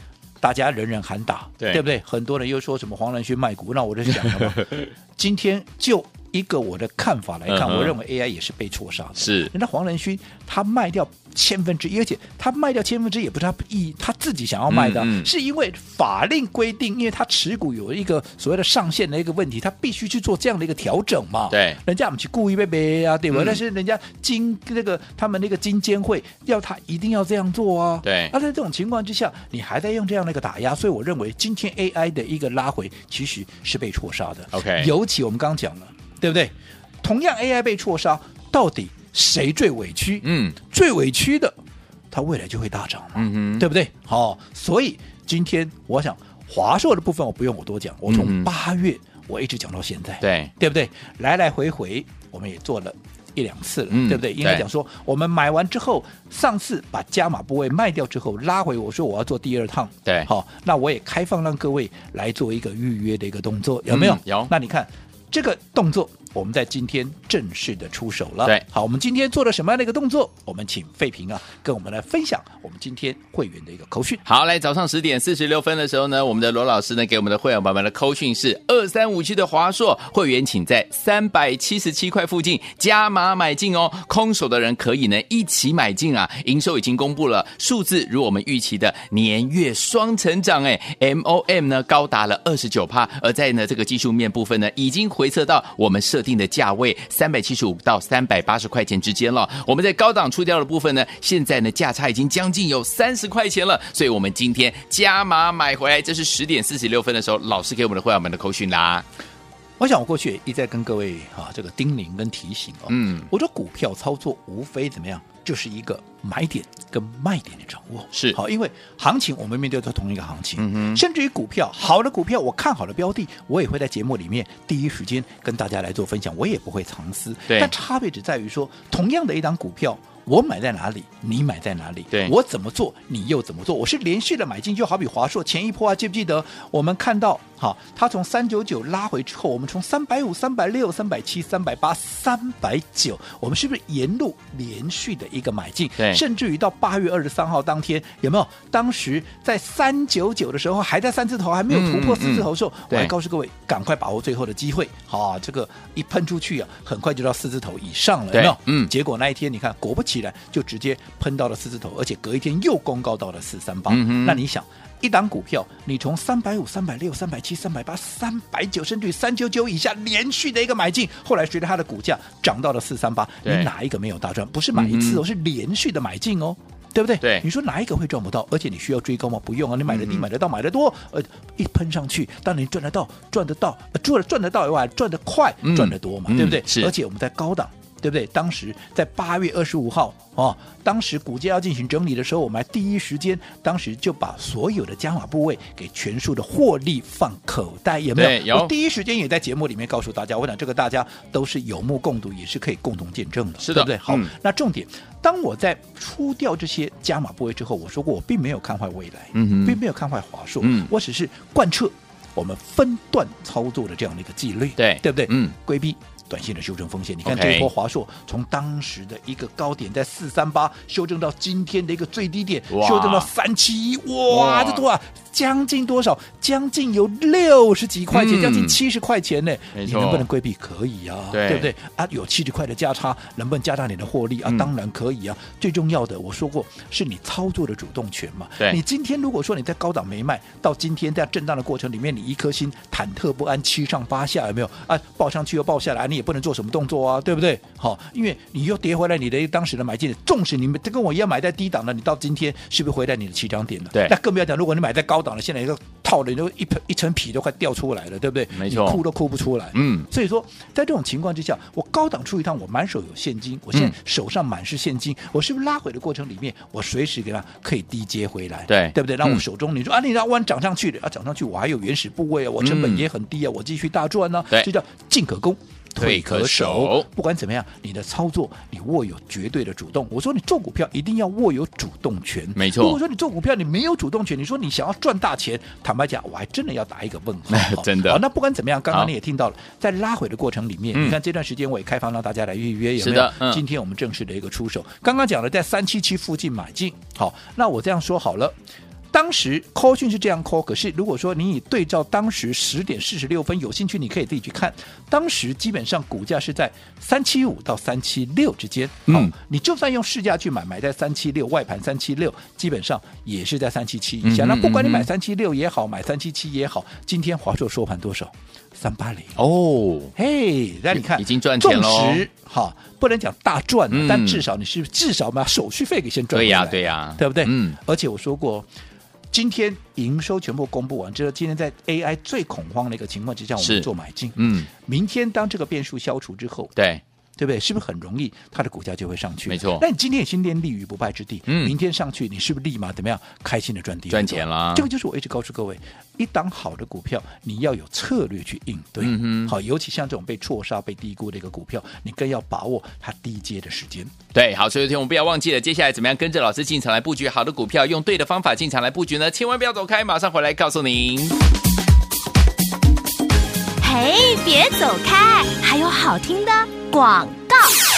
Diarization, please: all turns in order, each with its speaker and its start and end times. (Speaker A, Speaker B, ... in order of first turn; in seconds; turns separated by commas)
Speaker A: 0.4-41.6, Speaker B: 4.2-4.9, Speaker B: 7.5-8.0, Speaker B: 9.2-9.5, Speaker B: 14.7-15.3, Speaker B: 21.5-21.8, Speaker B: 23.3-23.6, Speaker B: 28.0-28.3, Speaker B: 34.5-34.9, Speaker B: 40.2-40.6, Speaker A: 42.1-74.2, Speaker B: 43.2-43.7, Speaker B: 48.1-48.5, Speaker B: 50.2-50.5, Speaker B: 53.9-54.6, Speaker B: 63.9-64.5, Speaker B: 74.3-109.0, Speaker A: 109.8-298.6, Speaker B: 112.9-113.3, Speaker B: 118.1-118.4, Speaker B: 120.6-121.0, Speaker B: 127.5-127.7, Speaker B: 151.7-153.1, Speaker B: 158.3-158.9, Speaker B: 163.9-164.4, Speaker B: 173.4-173.7, Speaker B: 174.7-175.2, Speaker B: 177.2-177.5, Speaker B: 179.9-180.2, Speaker B: 185.6-186.9, Speaker B: 198.2-198.7, Speaker B: 203.6-204.3, Speaker B: 209.3-209.8, Speaker B: 210.6-210.9, Speaker B: 214.8-215.6, Speaker B: 217.2-217.7, Speaker B: 222.7-223.3, Speaker B: 224.3-224.8, Speaker B: 228.1-228.8, Speaker B: 229.8-230.3, Speaker B: 231.3-231.7, Speaker B: 258.5-259.0, Speaker B: 259.7-260.1, Speaker B: 268.7-269.4, Speaker B: 272.6-273.1, Speaker B: 276.0-277.1, Speaker B: 282.6-283.0, Speaker B: 287.5-288.2, Speaker B: 293.0-293.6, Speaker A: 299.1-319.4, Speaker B: 309.1-309.3, Speaker B: 314.2-315.1, Speaker B: 319.4-320.1, Speaker A: 320.2-328.7, Speaker B: 320.9-322.2, Speaker B: 323.9-324.4, Speaker B: 326.3-327.8, Speaker A: 329.3-336.7, Speaker B: 333.6-334.7, Speaker B: 336.8-337.0, Speaker A: 337.4-354.1, Speaker B: 339.5-339.8, Speaker B: 341.5-341.7, Speaker B: 344.1-344.9, Speaker B: 349.0-349.5, Speaker B: 354.3-361.4, Speaker C: 363.8-367.8